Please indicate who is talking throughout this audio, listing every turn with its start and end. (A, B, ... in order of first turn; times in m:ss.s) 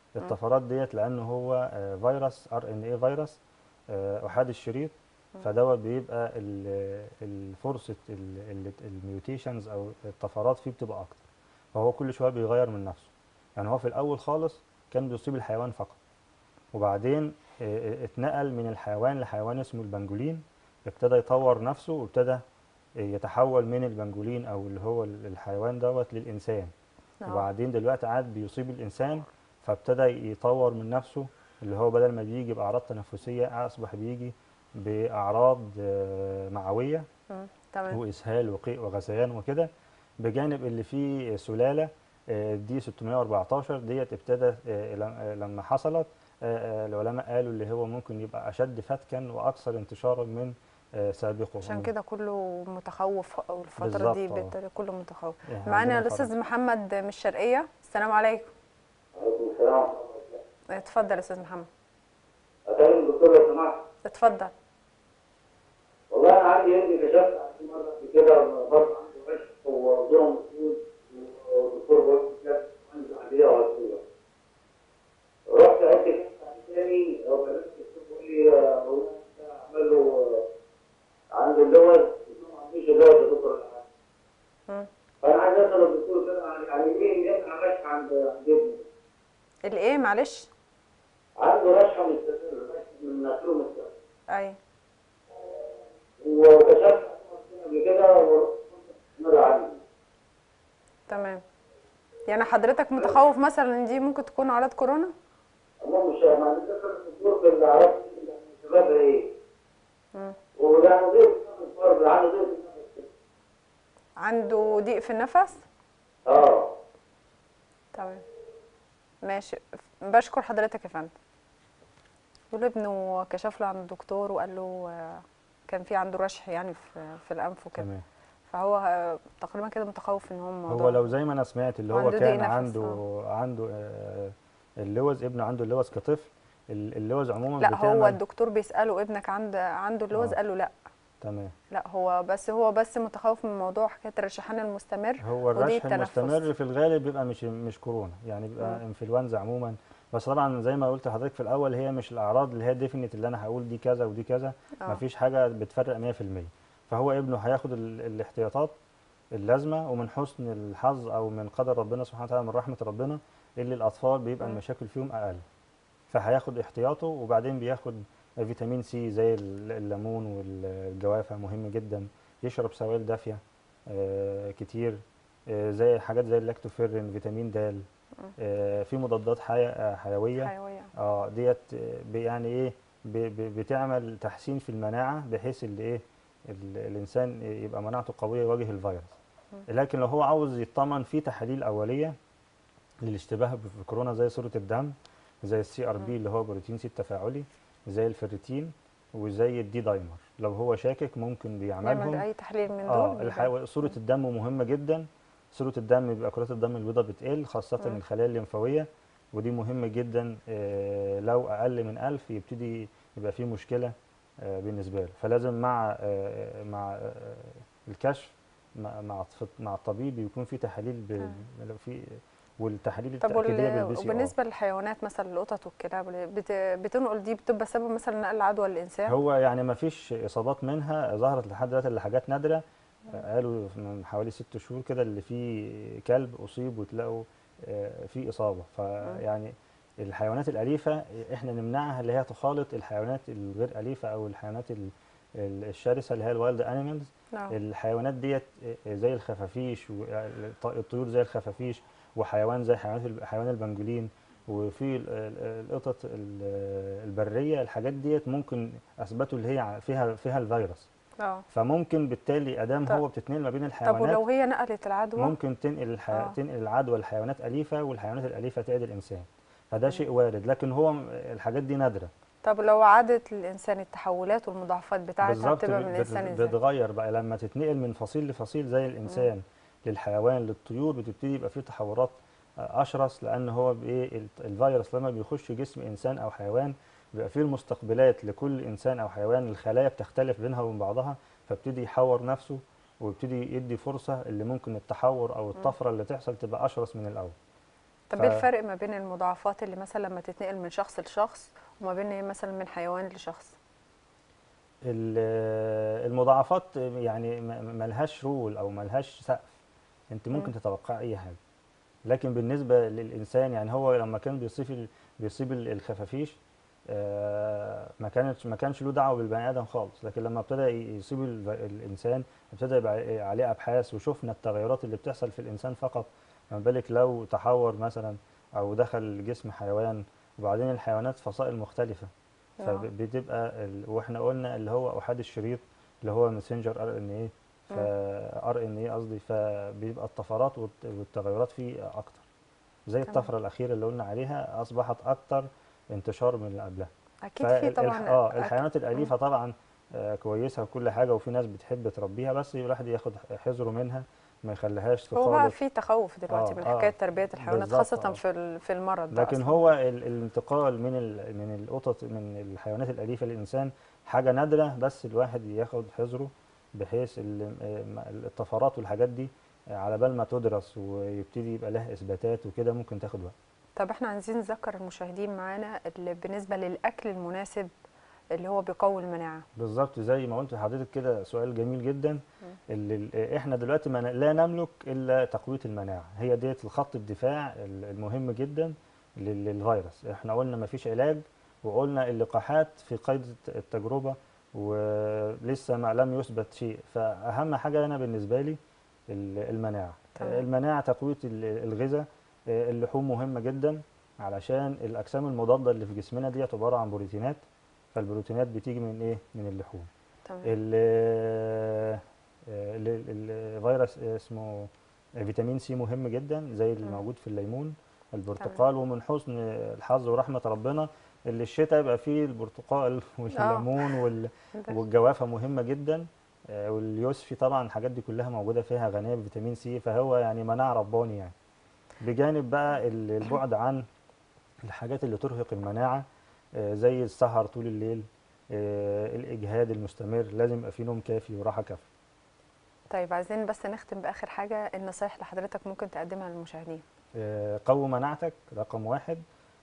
0:00.1-0:03.4 A
0:03.9-0:11.2 A
0:11.7-0:16.0 A
0:16.7-0:22.4 A
0:23.0-0:26.7 A
0:27.2-0:27.5 B
0:27.3-0:37.0 A
0:37.3-0:38.0 B
0:37.9-0:39.7 A
0:40.2-0:51.9 A
0:51.6-0:58.5 B
0:53.8-0:54.5 A
0:55.5-0:56.3 A
0:59.2-1:00.4 C
1:00.7-1:01.7 B
1:02.7-1:03.8 C
1:04.0-1:04.5 B
1:06.1-1:14.0 C
1:15.5-1:20.4 C
1:21.3-1:23.8 C
1:25.2-1:28.8 C
1:29.6-1:30.5 B
1:31.4-1:33.9 C
1:34.3-1:34.6 B
1:36.2-1:39.8 C
1:41.1-1:41.4 B
1:42.3-1:45.1 B
1:45.8-1:49.3 C
1:50.6-1:53.0 C
1:54.2-1:55.6 B
1:56.2-1:56.7 C
1:57.9-1:58.2 B
1:59.2-2:01.1 B
2:02.5-2:07.8 B
2:07.8-2:08.0 A
2:08.5-2:11.0 B
2:10.7-2:18.2 A
2:11.9-2:13.0 B
2:17.6-2:20.7 B
2:21.2-2:21.5 A
2:21.7-2:26.5 B
2:25.2-2:38.7 A
2:39.3-2:45.4 A
2:46.1-2:57.8 A
2:58.4-3:09.2 A
3:00.4-3:00.9 B
3:09.7-3:12.1 A
3:13.0-3:22.2 A
3:21.8-3:23.5 B
3:22.9-3:44.3 A
3:43.2-3:49.2 B
3:49.1-4:20.9 A
4:21.2-4:21.4 B
4:21.5-4:24.2 A
4:23.8-4:25.3 B
4:25.2-4:32.1 A
4:32.4-4:36.6 B
4:35.2-4:57.3 A
4:58.1-5:03.5 B
4:58.1-4:58.4 A
5:04.9-5:09.6 A
5:10.1-5:11.4 A
5:12.0-5:16.4 A
5:16.9-5:32.1 A
5:32.6-5:32.8 B
5:32.6-5:42.2 A
5:42.9-5:46.9 A
5:47.2-5:49.1 B
5:47.4-5:55.6 A
5:55.1-5:59.6 B
5:56.3-5:58.2 A
5:59.1-6:13.3 A
6:13.8-6:17.7 B
6:18.3-6:19.4 B
6:19.5-6:38.6 A
6:39.1-6:47.4 A
6:47.9-6:49.9 A
6:50.4-7:11.3 A
7:03.3-7:04.8 B
7:12.0-7:13.8 A
7:14.6-7:16.0 A
7:16.6-7:21.8 A
7:22.9-7:26.8 B
7:27.2-7:29.2 A